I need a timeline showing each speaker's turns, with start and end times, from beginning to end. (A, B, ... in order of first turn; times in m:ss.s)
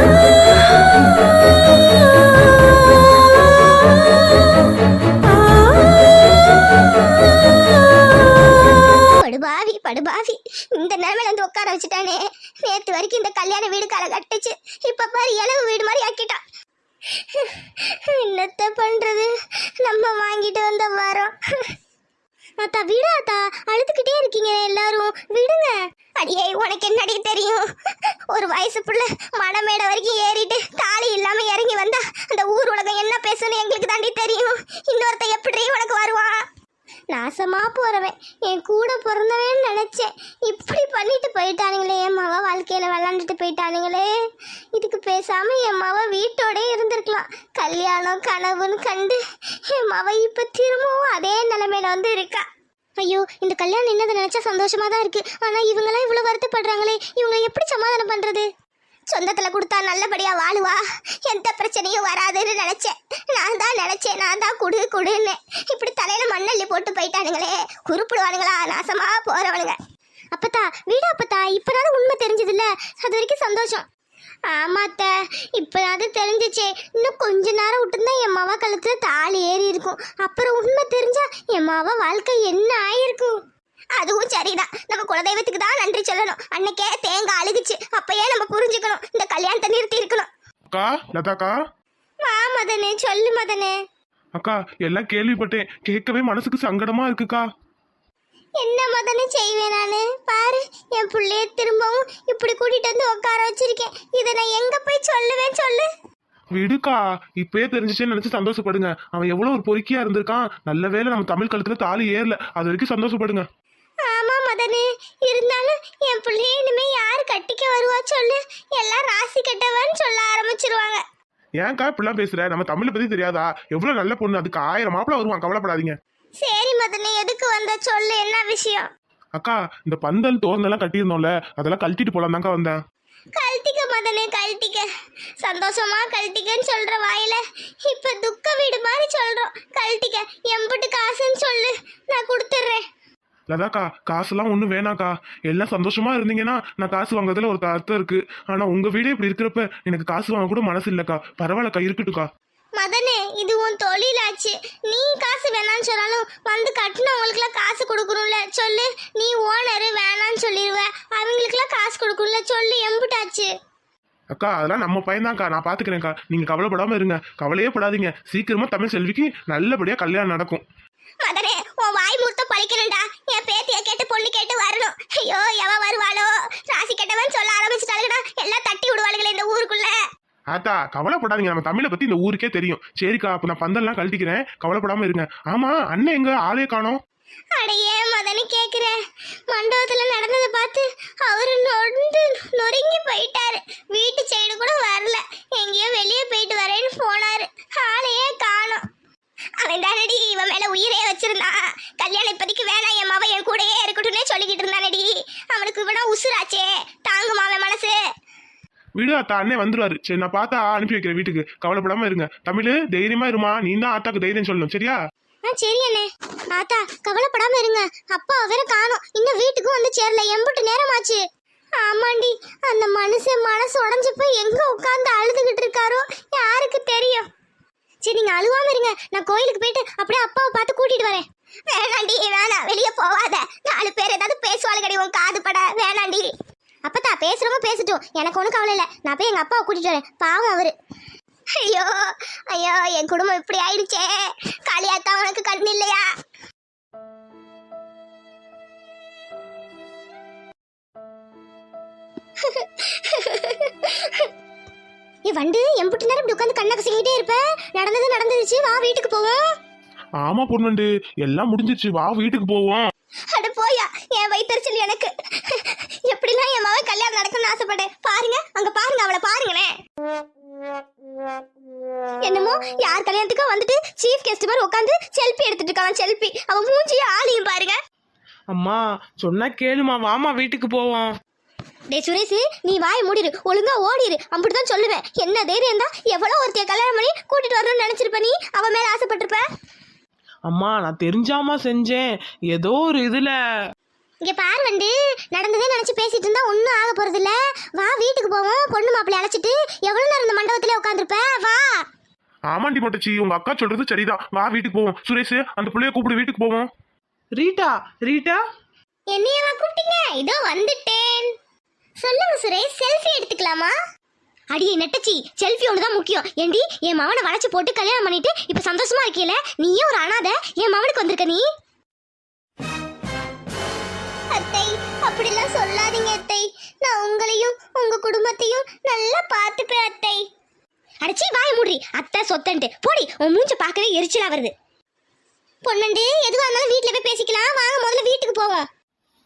0:09.1-0:16.4 A
0:17.2-0:21.7 A
0:22.6-0:27.7 A
0:28.3-0:36.4 A
0:37.1-0:44.1 A
0:44.7-0:52.5 A
0:53.0-0:58.5 A
0:59.1-1:09.8 A
1:10.3-1:13.9 A
1:14.5-1:23.4 A
1:24.0-1:30.3 A
1:30.7-1:31.5 B
1:32.2-1:33.8 A
1:34.4-1:37.4 B
1:38.6-1:45.9 A
1:46.6-1:53.5 B
1:54.0-2:01.0 A
2:01.6-2:06.0 B
2:06.4-2:08.9 A
2:09.4-2:12.8 B
2:13.3-2:14.8 A
2:15.4-2:22.8 A
2:23.5-2:32.3 B
2:32.8-2:43.5 A
2:44.3-2:50.6 B
2:51.2-3:00.0 A
3:00.5-3:07.0 B
3:07.5-3:09.0 A
3:09.5-3:18.9 A
3:19.6-3:28.0 A
3:29.0-3:35.0 B
3:35.5-3:41.2 A
3:41.8-3:47.3 A
3:48.0-3:56.3 A
3:56.9-4:00.7 A
4:01.6-4:06.1 A
4:12.4-4:14.3 A
4:15.3-4:19.4 A
4:20.2-4:22.9 B
4:23.3-4:29.8 A
4:32.2-4:37.8 A
4:38.5-4:41.1 C
4:41.9-4:49.5 A
4:50.5-4:53.4 C
4:54.2-5:01.8 A
5:02.5-5:06.7 B
5:07.4-5:08.4 C
5:09.1-5:11.4 A
5:12.0-5:13.7 A
5:14.5-5:21.5 A
5:24.3-5:30.2 A
5:31.0-5:34.5 A
5:35.6-5:38.7 A